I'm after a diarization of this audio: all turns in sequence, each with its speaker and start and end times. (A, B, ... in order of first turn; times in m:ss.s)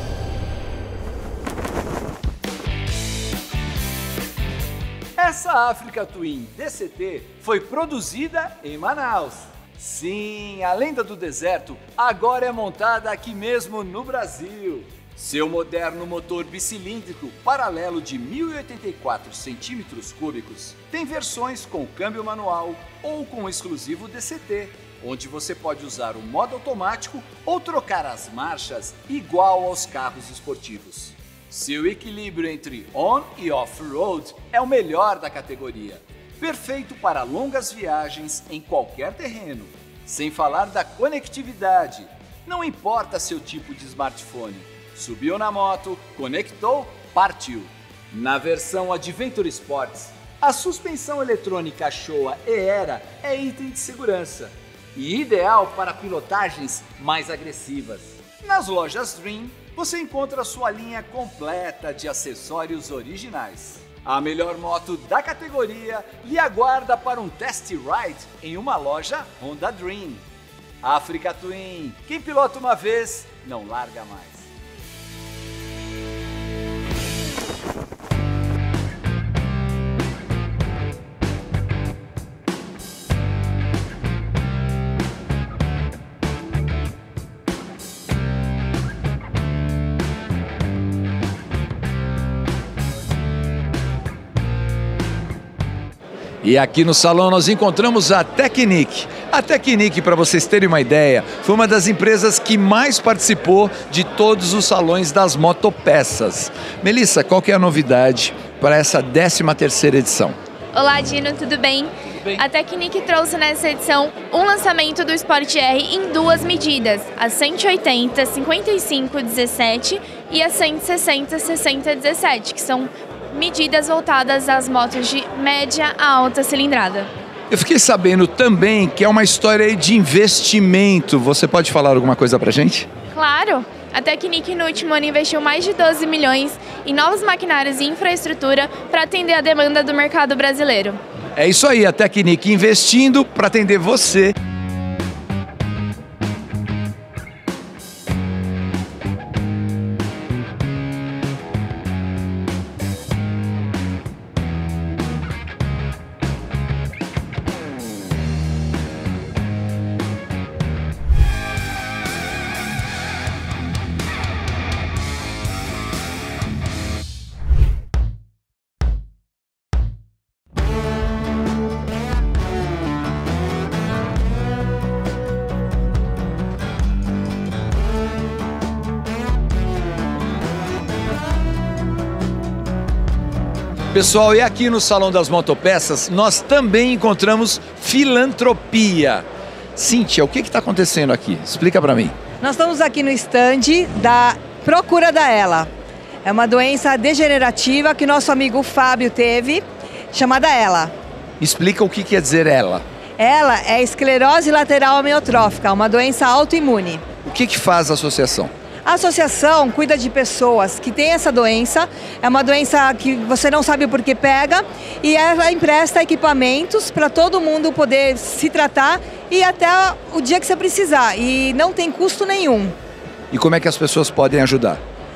0:05.2-1:10.2 A
1:10.8-1:14.5 A
1:36.4-1:50.4 A
1:50.7-2:07.1 B
2:07.5-2:12.9 A
2:13.1-2:21.0 B
2:21.4-2:24.4 A
3:03.9-3:12.2 A
3:12.4-3:15.7 C
3:16.2-3:20.9 C
3:21.4-3:22.8 A
3:23.2-3:27.1 C
3:27.2-3:28.5 A
3:28.9-3:42.8 C
3:43.3-3:44.8 A